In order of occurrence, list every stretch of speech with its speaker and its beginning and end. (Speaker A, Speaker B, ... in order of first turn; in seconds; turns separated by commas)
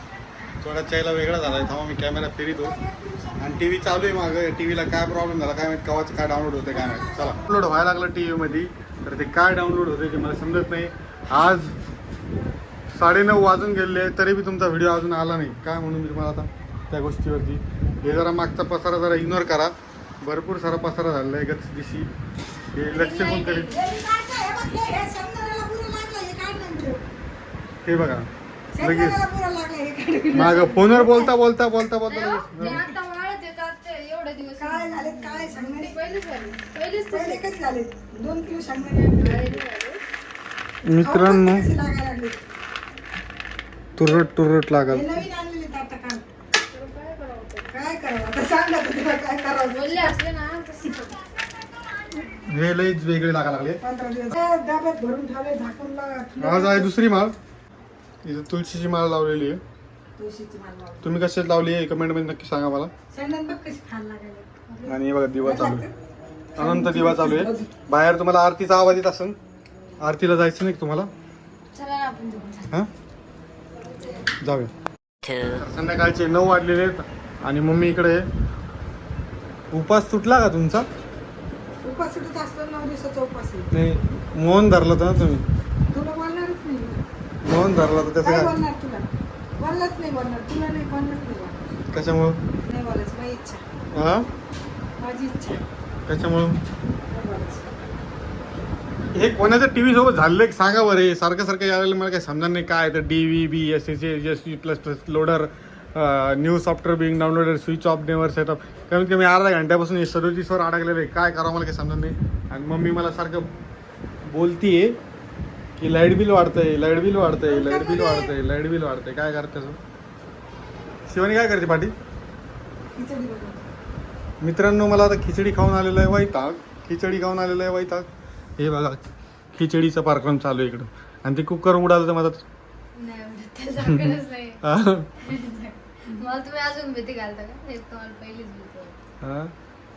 Speaker A: 0.6-2.8, Speaker B: 2.6-3.6, Speaker A: 3.4-11.7, Speaker B: 6.7-7.5, Speaker A: 12.9-22.1, Speaker A: 22.7-23.7, Speaker B: 22.9-27.0, Speaker C: 23.1-23.6, Speaker A: 27.8-28.3, Speaker B: 28.7-31.3, Speaker A: 28.8-29.2, Speaker A: 30.3-32.9, Speaker C: 32.1-37.4, Speaker B: 34.6-36.0, Speaker B: 37.1-39.6, Speaker C: 39.1-40.0, Speaker A: 40.8-41.7, Speaker B: 41.0-42.4, Speaker A: 44.0-45.2, Speaker B: 44.9-46.3, Speaker C: 46.7-47.7, Speaker B: 47.7-50.2, Speaker C: 49.7-51.1, Speaker A: 52.3-53.8, Speaker B: 53.8-56.9, Speaker A: 56.4-57.3, Speaker A: 58.2-59.6, Speaker B: 60.2-61.1, Speaker A: 61.0-62.9, Speaker B: 63.1-64.5, Speaker C: 64.7-65.0, Speaker A: 64.8-65.9, Speaker B: 65.4-65.9, Speaker B: 66.5-67.8, Speaker A: 66.6-69.3, Speaker A: 70.0-71.1, Speaker C: 71.7-72.7, Speaker A: 74.4-74.7, Speaker A: 75.4-78.2, Speaker A: 79.7-80.9, Speaker B: 81.8-83.7, Speaker A: 83.7-85.5, Speaker B: 85.9-87.0, Speaker A: 87.4-88.5, Speaker B: 88.2-89.0, Speaker B: 89.6-91.6, Speaker A: 91.9-92.4, Speaker B: 92.7-93.6, Speaker A: 93.9-94.3, Speaker B: 95.0-95.6, Speaker A: 96.1-96.6, Speaker B: 97.1-97.7, Speaker A: 99.1-113.5, Speaker A: 114.2-115.0, Speaker A: 115.8-119.8, Speaker B: 117.4-118.3, Speaker A: 121.1-121.9, Speaker B: 122.9-123.7, Speaker A: 124.4-128.1, Speaker A: 128.6-129.0, Speaker A: 129.5-132.4, Speaker C: 132.9-134.6, Speaker A: 134.6-135.1, Speaker C: 135.2-139.0, Speaker A: 139.2-139.5